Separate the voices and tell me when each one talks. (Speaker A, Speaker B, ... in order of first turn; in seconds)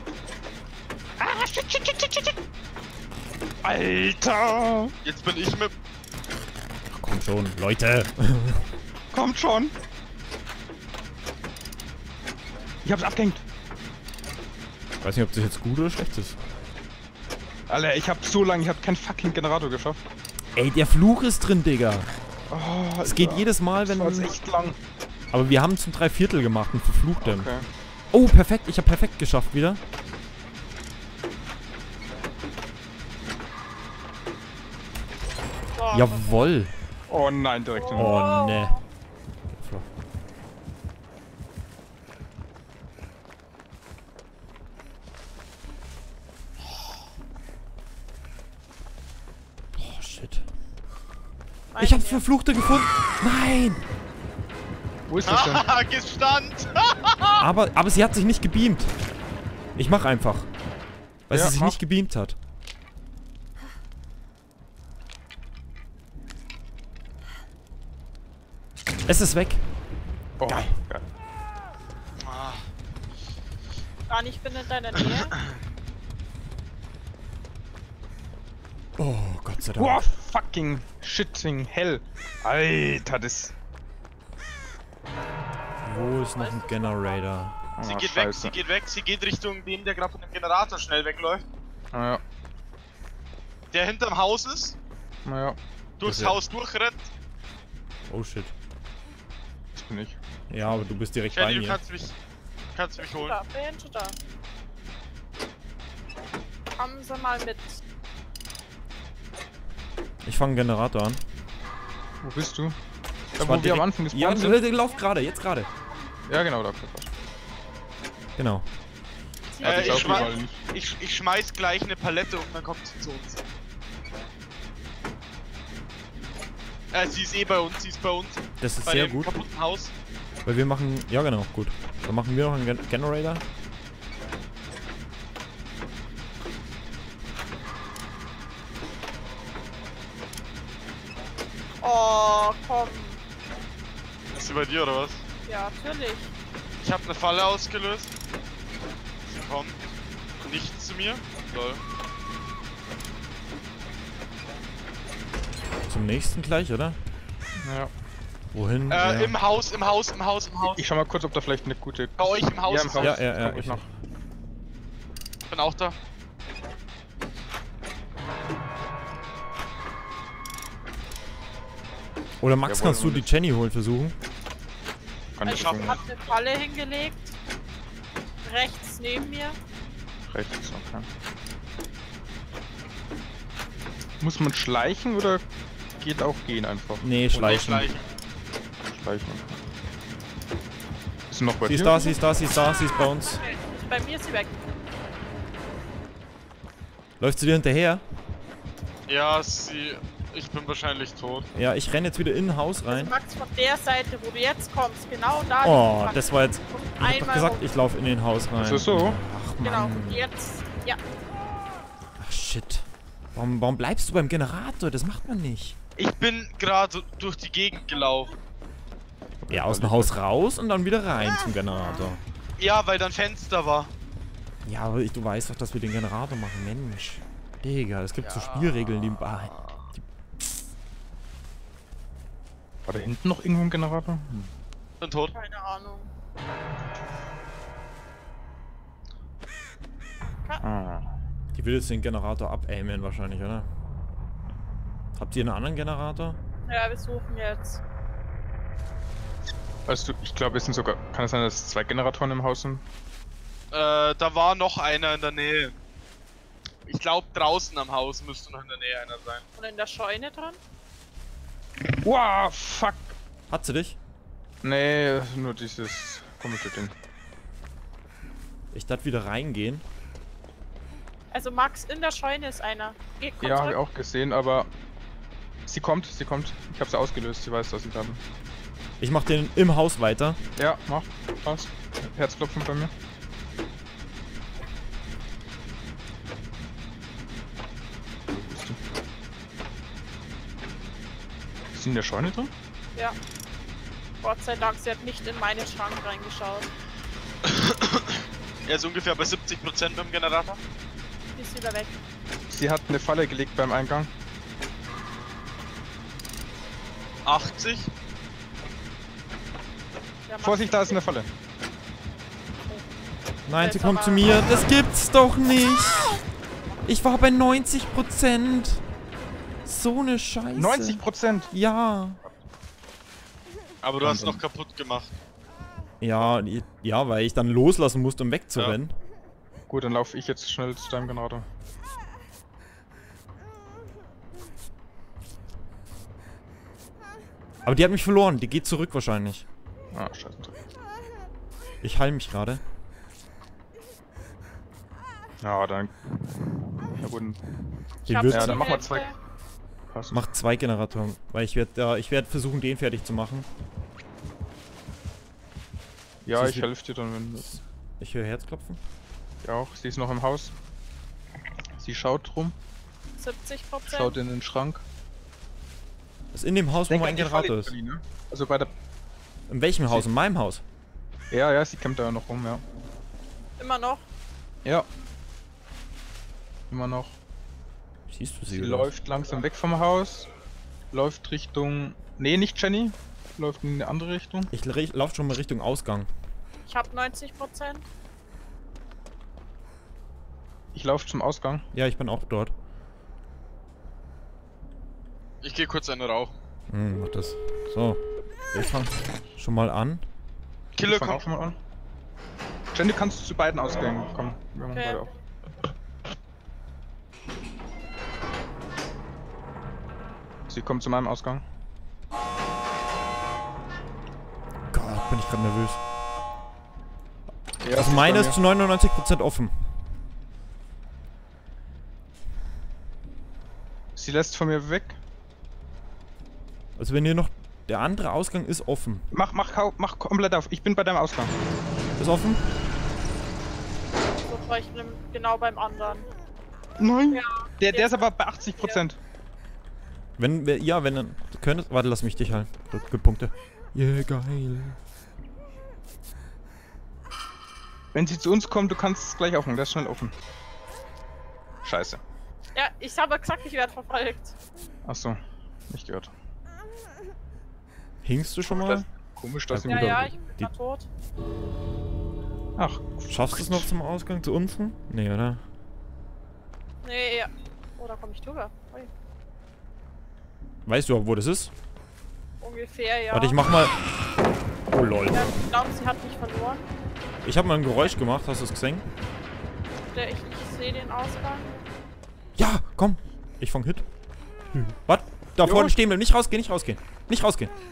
Speaker A: 1.2-2.4, 3.6-4.9, 9.1-9.8, 12.8-13.4, 17.7-20.0, 22.5-24.8, 27.2-27.7, 37.1-38.2, 55.1-55.7, 61.3-61.8, 70.4-71.0, 79.8-83.5, 87.8-88.6, 91.9-92.2, 95.2-95.6, 99.8-100.8, 112.2-112.8, 113.4-114.7, 116.3-117.1, 119.6-120.6, 157.6-157.9, 160.7-163.8, 172.7-173.3, 175.4-176.0, 180.3-181.1, 184.2-185.4, 186.0-187.6, 188.9-189.6, 191.3-192.2, 208.6-209.2, 219.4-220.2, 232.9-234.5, 240.6-241.1, 249.9-252.8, 261.9-263.2, 264.6-266.9, 273.4-274.7, 275.7-278.2, 280.6-282.9, 288.3-288.8, 291.7-292.5, 302.5-304.1, 310.4-311.3, 320.6-321.5, 324.1-324.4, 329.7-331.4, 339.9-340.6, 345.4-345.9, 347.0-347.4, 348.3-349.1, 349.9-350.2, 356.2-357.6, 359.4-360.5, 361.8-362.6, 363.9-364.8, 366.9-368.7, 371.3-372.6, 376.7-377.2, 378.5-380.3, 380.9-384.5, 390.7-391.7, 400.8-401.6, 402.7-405.1, 410.5-411.4, 417.6-418.4, 424.0-425.0, 429.1-431.3, 436.8-439.0, 447.9-450.2, 451.6-452.0, 454.9-455.2, 455.7-456.1, 458.4-460.1, 462.6-463.7, 485.4-485.8
Speaker B: 5.0-5.7, 55.2-57.4, 72.2-72.7, 87.8-91.5, 93.7-94.8, 96.0-97.1, 101.3-102.2, 102.7-103.4, 119.6-123.4, 126.9-129.9, 144.3-145.2, 146.8-148.1, 149.3-149.8, 150.4-151.8, 158.9-160.8, 162.2-163.2, 165.5-166.0, 175.5-176.0, 187.4-188.1, 199.1-201.5, 216.0-218.3, 222.6-223.9, 228.2-229.9, 235.0-235.3, 253.7-255.8, 256.9-259.4, 297.4-300.6, 307.3-307.9, 323.8-325.2, 395.4-396.4, 400.8-401.2
Speaker C: 6.9-8.7, 15.0-16.4, 20.6-22.1, 23.0-24.4, 25.3-27.5, 28.1-29.8, 35.9-36.7, 37.9-38.8, 39.5-39.9, 49.8-50.5, 51.8-53.8, 57.4-58.9, 59.8-60.5, 61.3-62.4, 69.1-69.7, 70.5-70.8, 79.0-80.0, 85.8-87.6, 96.0-96.4, 98.1-98.5, 100.5-101.8, 110.2-111.2, 113.4-115.7, 118.4-118.7, 128.6-129.3, 130.5-133.4, 155.9-157.0, 158.5-159.4, 163.0-163.9, 172.4-174.2, 187.0-187.9, 191.6-193.4, 197.2-198.0, 201.5-203.2, 205.6-210.3, 212.2-215.8, 219.5-222.2, 224.7-230.1, 241.5-243.7, 245.2-246.4, 263.5-264.0, 268.7-269.8, 279.0-280.4, 313.5-316.2, 316.9-318.8, 319.6-321.0, 321.5-322.2, 324.1-324.3, 326.0-328.9, 337.6-339.5, 341.8-342.6, 348.1-348.7, 350.1-353.5, 356.3-356.7, 357.5-358.8, 366.3-367.7, 369.5-370.6, 378.1-378.9, 384.5-386.1, 391.7-392.5, 396.7-400.0, 414.7-415.8, 417.7-419.6, 426.8-429.1, 432.0-432.4, 440.2-444.8, 458.0-458.9, 459.5-460.5, 463.1-465.4, 470.6-471.5, 473.1-475.4, 477.2-478.9, 482.4-483.9, 484.6-487.5
Speaker D: 35.8-36.4, 37.7-38.8, 51.7-52.2, 74.1-75.4, 85.9-87.2, 103.0-104.2, 106.8-107.8, 119.5-120.4, 141.8-143.2, 145.5-146.3, 175.4-177.3, 178.4-179.6, 192.8-194.6, 202.9-207.7, 209.6-211.0, 235.3-236.1, 246.7-247.8, 259.6-260.6, 271.3-273.8, 294.2-296.7, 301.4-302.0, 310.3-311.0, 313.6-314.6, 348.1-349.2, 363.2-364.2, 373.6-374.0, 386.7-387.9, 404.7-405.1, 434.2-436.1, 437.1-438.8, 452.6-454.3, 459.6-460.9, 466.8-468.9, 472.4-473.4, 475.1-476.7, 479.9-481.5